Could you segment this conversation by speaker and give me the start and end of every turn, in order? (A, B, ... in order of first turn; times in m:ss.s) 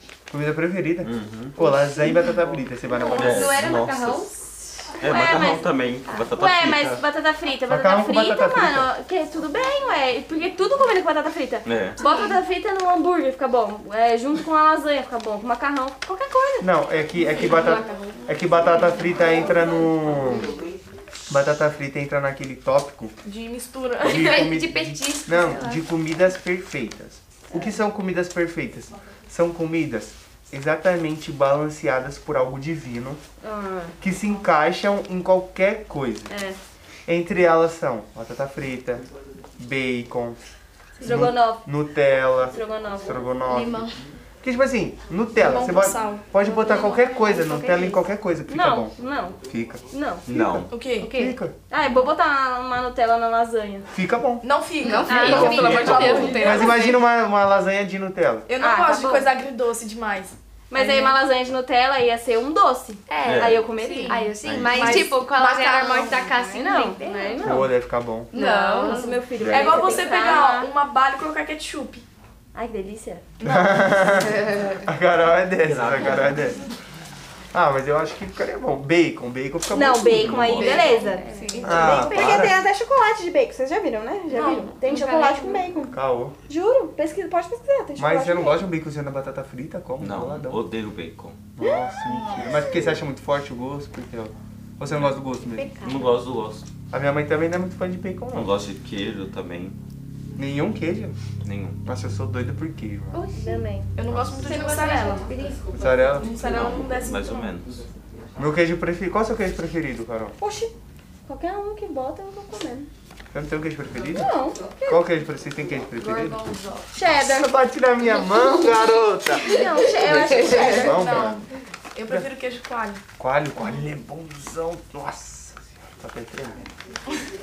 0:00.3-0:03.6 A
0:01.0-0:01.6 B
0:01.6-0:02.1 C
0:02.9-0:16.7 C
0:03.1-0:04.3 B
0:05.0-0:07.0 B
0:06.0-0:06.3 D
0:07.7-0:08.9 A
0:11.6-0:12.0 B
0:16.6-0:20.5 A
0:17.4-0:17.9 E
0:21.3-0:23.1 A
0:23.2-0:24.3 E
0:24.0-0:25.8 D
0:24.0-0:33.2 A
0:33.4-0:34.0 C
0:34.0-0:36.3 A
0:36.3-0:36.6 C
0:37.0-0:39.1 A
0:39.6-0:40.4 A
0:41.0-0:41.6 C
0:41.0-0:42.5 A
0:42.4-0:43.3 C
0:43.1-0:43.8 A
0:43.5-0:44.0 E
0:44.4-0:51.5 A
0:45.4-0:46.9 E
0:46.8-0:47.9 D
0:47.3-0:49.4 C
0:49.9-0:50.2 C
0:50.2-0:50.7 B
0:50.7-0:51.1 E
0:51.0-0:51.3 D
0:51.2-0:53.9 C
0:53.9-0:54.4 A
0:54.4-0:57.0 E
0:54.8-0:56.8 D
0:55.0-0:56.8 C
0:55.2-0:58.5 A
0:55.5-0:55.9 B
0:58.5-1:00.9 E
0:58.6-0:59.3 C
1:00.7-1:04.2 C
1:00.8-1:01.1 D
1:03.1-1:07.5 D
1:03.2-1:03.6 B
1:04.4-1:05.0 A
1:04.7-1:06.3 E
1:04.8-1:07.7 C
1:07.4-1:08.3 A
1:08.3-1:12.0 E
1:08.4-1:09.0 D
1:08.4-1:10.7 C
1:09.4-1:10.0 A
1:12.5-1:13.2 C
1:13.4-1:14.6 E
1:13.4-1:16.6 A
1:15.6-1:16.4 B
1:17.5-1:20.8 A
1:19.7-1:25.9 C
1:20.5-1:22.0 E
1:20.6-1:22.1 D
1:21.6-1:22.6 A
1:24.3-1:24.7 E
1:24.7-1:25.7 D
1:25.9-1:26.4 A
1:26.5-1:28.6 C
1:28.0-1:30.6 A
1:30.0-1:31.4 B
1:31.6-1:35.7 A
1:32.4-1:32.9 C
1:35.6-1:35.9 C
1:35.6-1:35.9 D
1:35.8-1:36.6 B
1:36.9-1:38.5 A
1:38.3-1:39.8 B
1:40.4-1:41.2 A
1:41.4-1:41.8 B
1:41.8-1:43.2 A
1:43.1-1:43.6 D
1:43.3-1:43.9 C
1:43.9-1:45.3 E
1:44.1-1:44.5 A
1:44.4-1:45.6 D
1:44.8-1:45.6 C
1:45.7-1:46.4 A
1:46.1-1:47.5 E
1:46.3-1:47.8 B
1:48.4-1:50.4 A
1:51.2-1:52.9 C
1:53.3-1:54.3 A
1:54.0-1:55.0 C
1:54.8-1:56.4 A
1:56.0-1:56.8 E
1:56.9-1:57.5 C
1:57.0-2:01.4 A
1:59.4-2:01.0 C
2:00.7-2:03.0 E
2:02.0-2:02.3 A
2:03.2-2:06.6 A